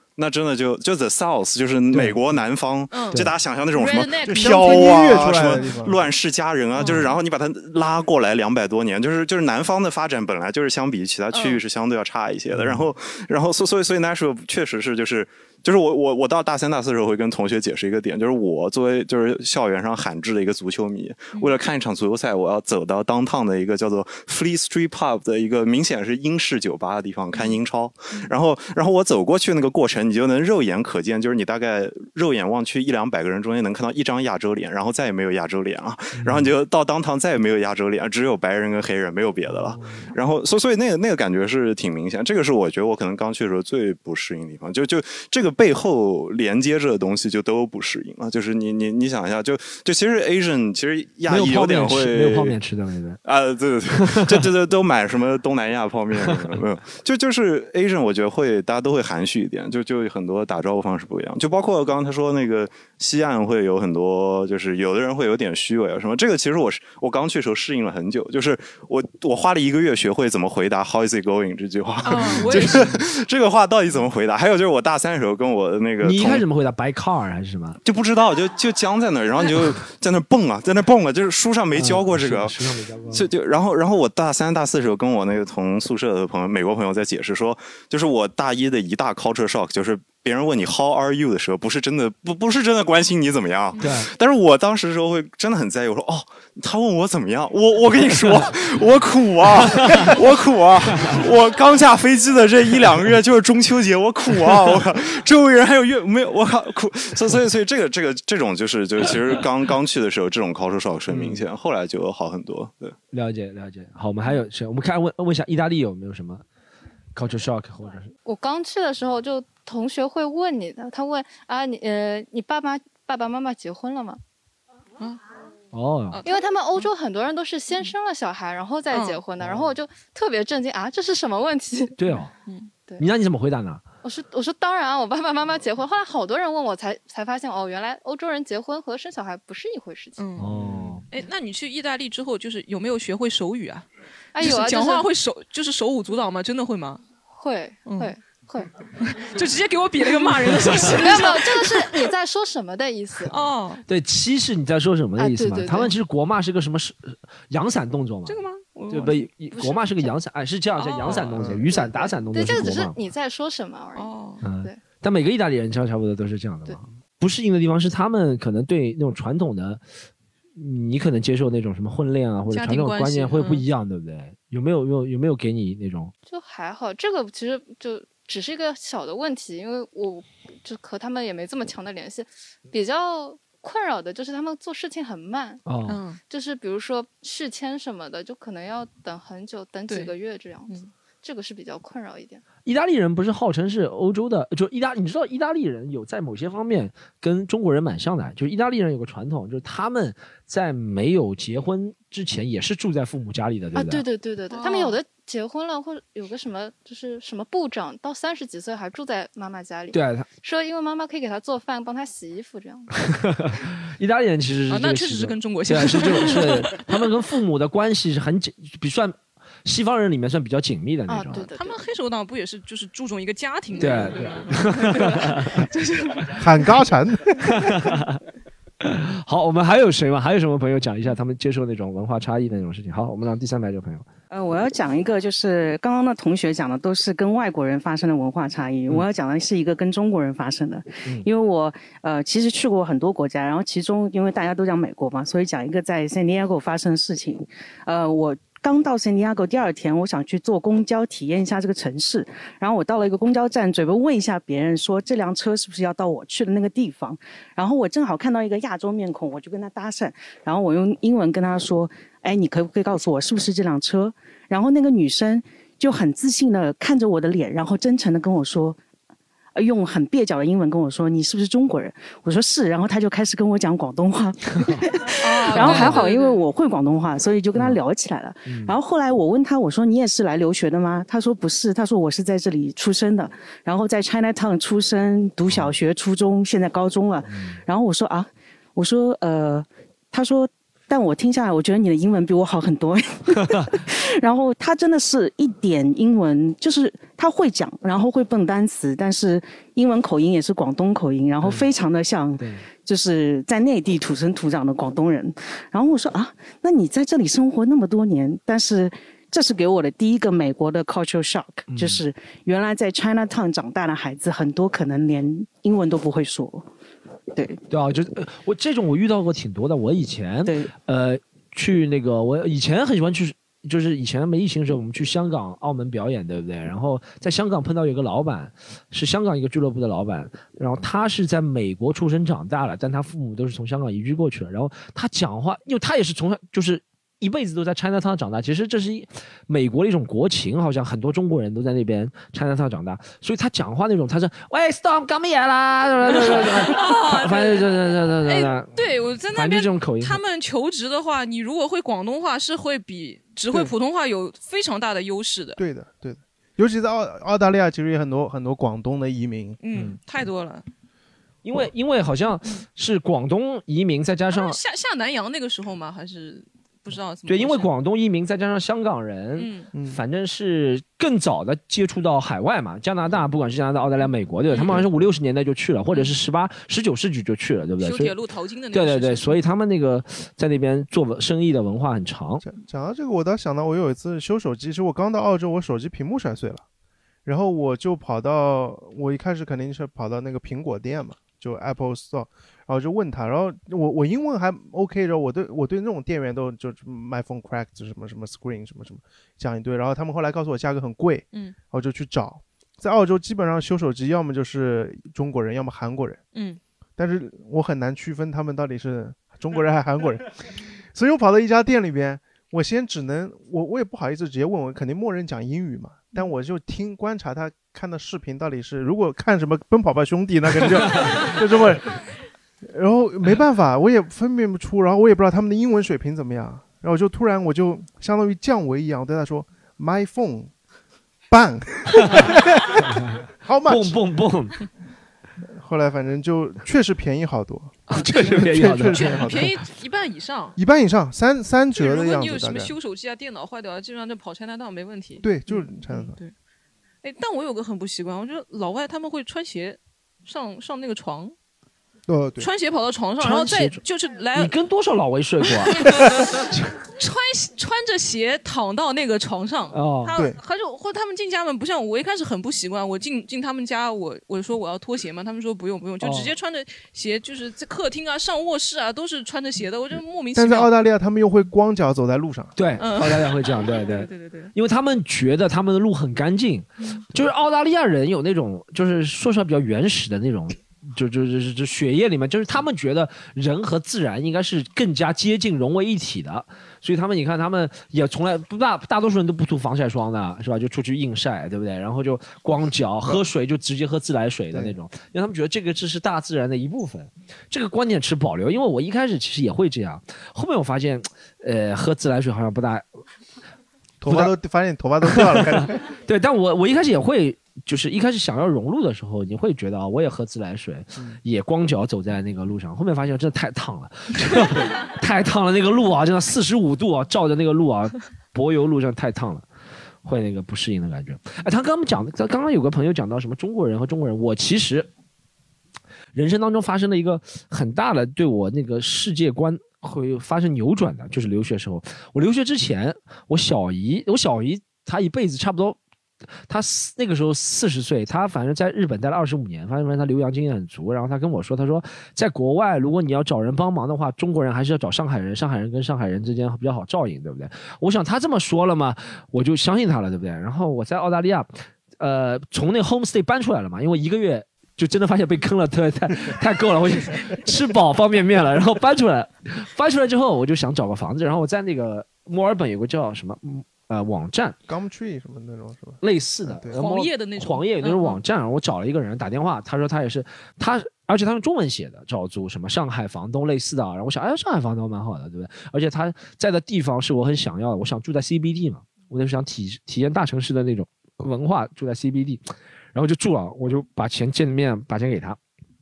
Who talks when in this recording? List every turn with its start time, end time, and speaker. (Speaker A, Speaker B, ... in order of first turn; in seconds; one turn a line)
Speaker A: 0.2-52.6
Speaker B: 1.9-2.2
Speaker C: 2.9-5.2
Speaker D: 4.3-6.0
Speaker C: 6.8-7.1
Speaker C: 11.3-11.6
Speaker B: 12.5-12.9
Speaker B: 36.1-36.5
Speaker B: 39.5-40.1
Speaker B: 51.3-53.2
Speaker A: 53.2-76.5
Speaker B: 53.9-54.5
Speaker B: 56.2-56.6
Speaker C: 72.0-72.9
Speaker B: 72.3-73.0
Speaker B: 76.0-77.8
Speaker A: 77.8-113.0
Speaker B: 81.7-83.3
Speaker B: 93.8-94.1
Speaker B: 98.2-98.5
Speaker B: 99.7-100.2
Speaker B: 111.1-111.5
Speaker B: 113.1-116.5
Speaker B: 117.2-118.1
Speaker E: 118.2-124.2
Speaker B: 125.7-126.2
Speaker C: 126.1-126.9
Speaker E: 126.2-132.2
Speaker C: 128.9-129.2
Speaker B: 132.0-132.3
Speaker B: 133.0-133.8
Speaker E: 134.0-140.2
Speaker C: 140.2-140.5
Speaker B: 140.4-141.0
Speaker C: 141.1-143.9
Speaker E: 144.3-145.1
Speaker C: 144.4-147.0
Speaker E: 147.3-148.7
Speaker C: 147.9-148.1
Speaker C: 149.0-152.1
Speaker E: 150.7-153.4
Speaker C: 153.3-153.8
Speaker B: 153.9-163.0
Speaker E: 155.2-155.9
Speaker C: 158.3-159.2
Speaker E: 159.5-160.1
Speaker C: 160.8-161.5
Speaker D: 161.4-161.7
Speaker E: 161.4-164.8
Speaker C: 163.9-164.4
Speaker B: 164.4-169.8
Speaker B: 170.6-176.1
Speaker C: 172.5-173.7
Speaker E: 176.2-185.6
Speaker B: 185.7-186.0
Speaker C: 185.9-186.2
Speaker E: 186.2-192.4
Speaker B: 192.7-204.0
Speaker E: 203.8-212.9
Speaker C: 204.5-205.0
Speaker B: 209.9-210.3
Speaker B: 213.1-221.5
Speaker C: 214.7-217.0
Speaker E: 221.1-221.8
Speaker C: 221.5-226.4
Speaker B: 223.8-225.7
Speaker D: 226.3-227.7
Speaker B: 227.5-228.2
Speaker B: 228.8-234.1
Speaker F: 234.3-268.8
Speaker F: 269.6-316.7
Speaker C: 275.2-276.4
Speaker B: 275.5-276.0
Speaker B: 278.5-278.8
Speaker B: 287.3-287.6
Speaker B: 302.4-302.7
Speaker B: 311.7-312.0
Speaker F: 317.3-317.6
Speaker B: 317.7-350.2
Speaker C: 346.1-355.6
Speaker D: 355.6-359.6
Speaker C: 359.6-360.7
Speaker B: 361.4-364.6
Speaker C: 364.3-367.7
Speaker B: 367.3-378.2
Speaker C: 369.4-369.7
Speaker D: 369.7-370.0
Speaker C: 374.5-374.9
Speaker C: 377.8-379.4
Speaker B: 378.7-382.4
Speaker D: 382.4-386.6
Speaker D: 387.2-406.2
Speaker C: 406.3-406.6
Speaker D: 407.0-422.0
Speaker D: 422.7-430.5
Speaker D: 431.3-434.0
Speaker B: 433.6-434.6
Speaker D: 435.6-439.6
Speaker C: 437.9-440.6
Speaker B: 437.9-439.5
Speaker D: 440.6-442.7
Speaker C: 441.7-446.3
Speaker D: 445.2-446.2
Speaker C: 447.0-451.3
Speaker D: 452.1-452.5
Speaker C: 452.4-454.5
Speaker B: 453.2-453.8
Speaker B: 454.4-456.7
Speaker C: 455.7-456.2
Speaker C: 457.0-470.7
Speaker B: 459.7-460.2
Speaker B: 466.0-466.3
Speaker D: 470.4-472.6
Speaker B: 472.6-502.9
Speaker C: 472.8-474.5
Speaker D: 504.0-505.9
Speaker B: 504.1-504.3
Speaker B: 505.1-519.5
Speaker B: 520.0-524.9
Speaker B: 526.1-535.8
Speaker B: 536.5-564.6
Speaker D: 564.7-566.8
Speaker B: 566.0-585.4
Speaker C: 566.7-568.2